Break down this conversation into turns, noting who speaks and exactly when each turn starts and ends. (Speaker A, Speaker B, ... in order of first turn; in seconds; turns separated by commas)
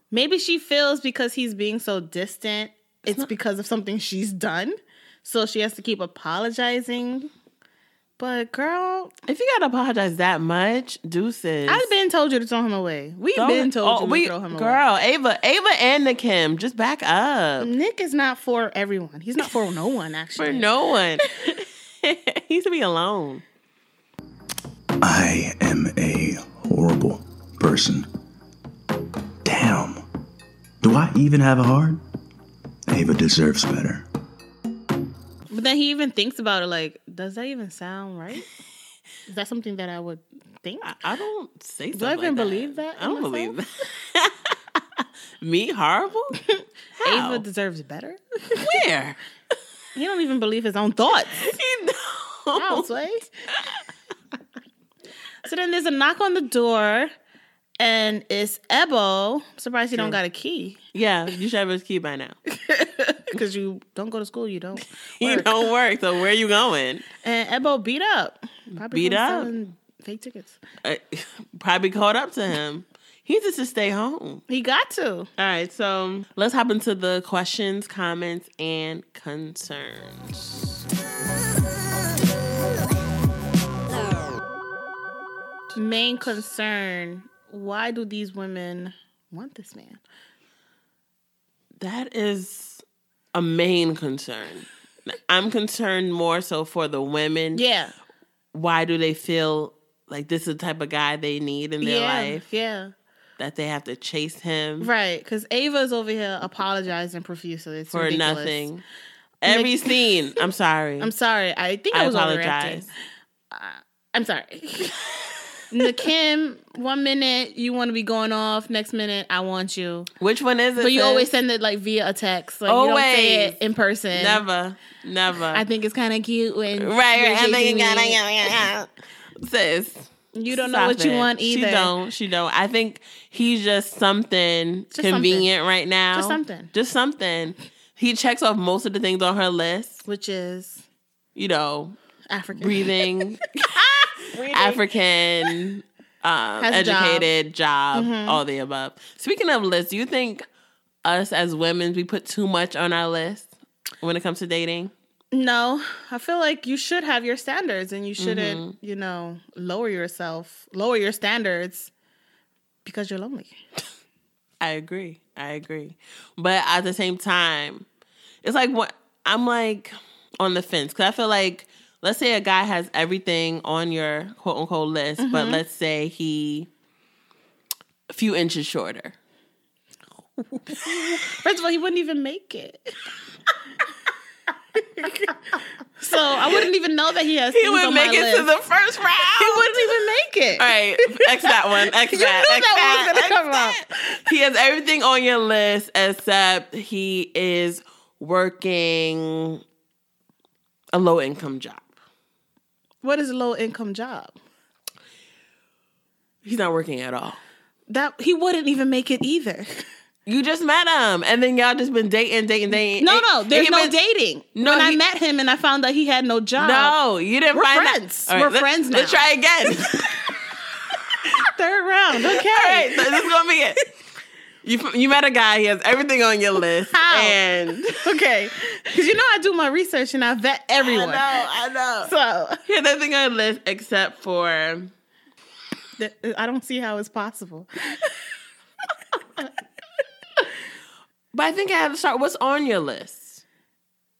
Speaker A: 0.1-7.3, Speaker A: 8.2-9.1, Speaker B: 9.3-11.9, Speaker A: 11.7-14.8, Speaker B: 13.3-17.7, Speaker A: 17.6-20.7, Speaker B: 20.4-23.4, Speaker C: 25.0-28.1, Speaker C: 29.4-30.0, Speaker C: 30.8-32.0, Speaker C: 32.9-34.0, Speaker A: 35.5-38.5, Speaker A: 39.3-41.0, Speaker B: 40.8-46.4, Speaker A: 41.9-43.5, Speaker A: 46.5-48.7, Speaker B: 47.0-47.4, Speaker B: 48.6-49.2, Speaker A: 49.9-51.5, Speaker B: 51.4-52.8, Speaker A: 52.5-53.3, Speaker A: 55.4-57.1, Speaker A: 57.8-60.8, Speaker B: 60.9-62.4, Speaker A: 62.6-65.7, Speaker B: 65.2-67.0, Speaker A: 67.2-70.6, Speaker B: 68.9-69.5, Speaker B: 70.8-74.4, Speaker A: 74.5-75.3, Speaker B: 75.4-80.4, Speaker A: 85.7-90.0, Speaker B: 91.8-92.8, Speaker B: 93.3-97.6, Speaker A: 97.5-97.9, Speaker B: 98.5-102.4, Speaker A: 101.8-102.9, Speaker B: 103.4-104.9, Speaker A: 104.8-108.7, Speaker B: 107.9-108.8, Speaker B: 109.4-111.1, Speaker A: 109.5-109.9, Speaker A: 111.0-112.9, Speaker B: 111.9-112.9, Speaker A: 113.5-115.0, Speaker A: 115.7-120.1, Speaker B: 120.2-121.3, Speaker A: 120.8-124.4, Speaker B: 122.7-123.5, Speaker B: 124.1-125.6, Speaker A: 125.5-128.2, Speaker B: 126.8-128.9, Speaker B: 129.4-140.0, Speaker A: 130.3-131.9, Speaker A: 134.9-135.5, Speaker A: 136.1-136.7, Speaker A: 140.1-140.8, Speaker B: 141.3-141.9, Speaker A: 142.3-144.9, Speaker B: 142.6-143.7, Speaker B: 144.4-150.4, Speaker A: 146.6-147.3, Speaker A: 147.9-148.4, Speaker B: 151.0-153.5, Speaker B: 154.0-154.9, Speaker A: 155.3-161.9, Speaker B: 158.2-158.7, Speaker A: 162.8-163.6, Speaker B: 164.6-167.8, Speaker B: 168.4-176.7, Speaker A: 175.2-175.6, Speaker B: 178.1-179.1, Speaker A: 180.6-182.9, Speaker A: 185.0-185.3, Speaker A: 186.0-188.5, Speaker B: 187.5-189.9, Speaker A: 189.4-194.2, Speaker B: 190.6-199.6, Speaker B: 200.9-201.9, Speaker A: 203.0-204.3, Speaker B: 206.4-207.4, Speaker A: 207.9-209.8, Speaker B: 210.2-213.9, Speaker A: 212.7-216.9, Speaker B: 214.6-215.0, Speaker B: 216.6-220.4, Speaker A: 217.5-219.2, Speaker A: 221.5-223.2, Speaker B: 222.3-223.8, Speaker B: 224.6-228.1, Speaker A: 226.9-227.4, Speaker A: 228.0-231.4, Speaker B: 230.8-232.1, Speaker A: 232.0-232.6, Speaker B: 232.7-234.9, Speaker A: 236.0-237.7, Speaker B: 241.3-243.4